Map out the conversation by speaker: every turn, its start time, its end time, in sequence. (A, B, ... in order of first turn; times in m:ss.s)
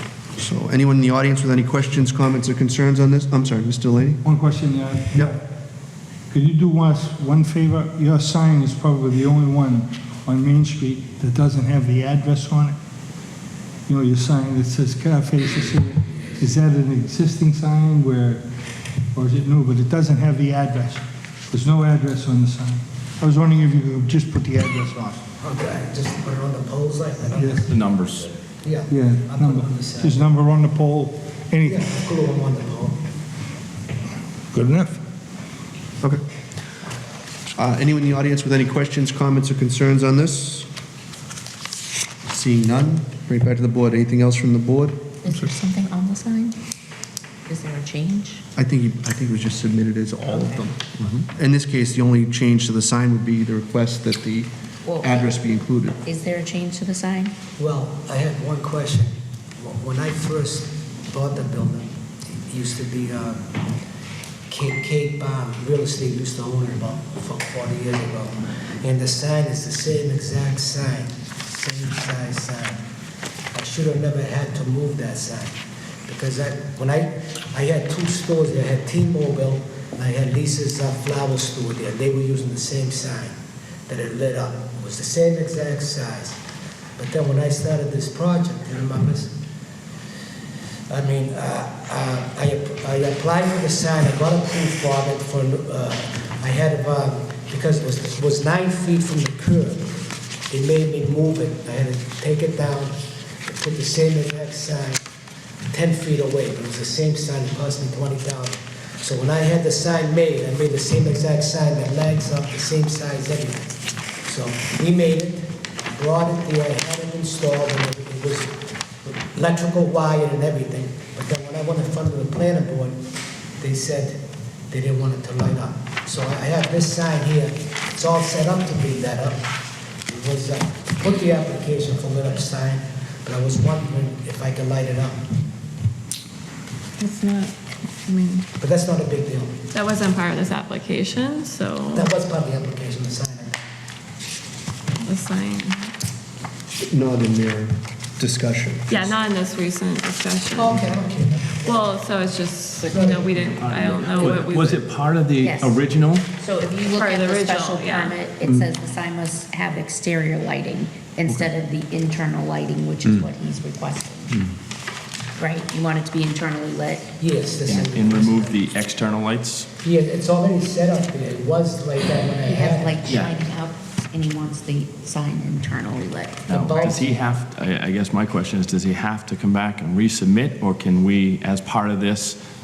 0:00.4-0:04.2 A
0:04.2-0:05.4 B
0:06.3-0:12.8 B
0:13.9-0:18.4 B
0:19.1-0:25.3 B
0:25.4-0:27.8 C
0:27.3-0:27.7 B
0:27.7-0:28.3 D
0:28.6-0:30.3 C
0:28.9-0:31.9 B
0:31.6-0:33.0 C
0:34.5-0:35.0 B
0:37.6-0:40.7 A
0:42.3-0:45.4 A
0:45.2-0:46.6 E
0:47.5-0:48.4 E
0:48.6-0:54.5 A
0:54.8-0:55.4 E
0:55.0-0:56.0 A
0:56.0-0:57.3 E
0:57.6-1:01.9 C
1:02.5-1:03.6 C
1:04.5-1:12.8 C
1:13.5-1:15.5 C
1:16.1-1:23.3 C
1:23.9-1:26.4 C
1:27.0-1:29.3 C
1:30.9-1:39.9 C
1:40.5-1:43.0 C
1:43.5-1:45.0 C
1:45.7-1:53.7 C
1:54.2-2:03.0 C
2:03.6-2:09.4 C
2:10.1-2:15.2 C
2:17.0-2:17.5 F
2:18.0-2:18.5 F
2:18.6-2:19.6 C
2:19.7-2:22.1 F
2:21.9-2:23.6 C
2:25.0-2:25.9 F
2:26.8-2:29.1 A
2:28.9-2:30.8 F
2:30.5-2:31.9 C
2:31.6-2:34.8 F
2:32.8-2:33.5 C
2:33.6-2:36.3 D
2:35.4-2:35.8 E
2:36.4-2:44.4 E
2:36.9-2:38.2 F
2:45.4-2:47.1 E
2:47.2-2:48.7 C
2:47.7-2:49.7 D
2:49.8-2:53.2 C
2:52.4-2:57.0 E
2:56.5-3:02.4 D
2:56.5-2:57.3 C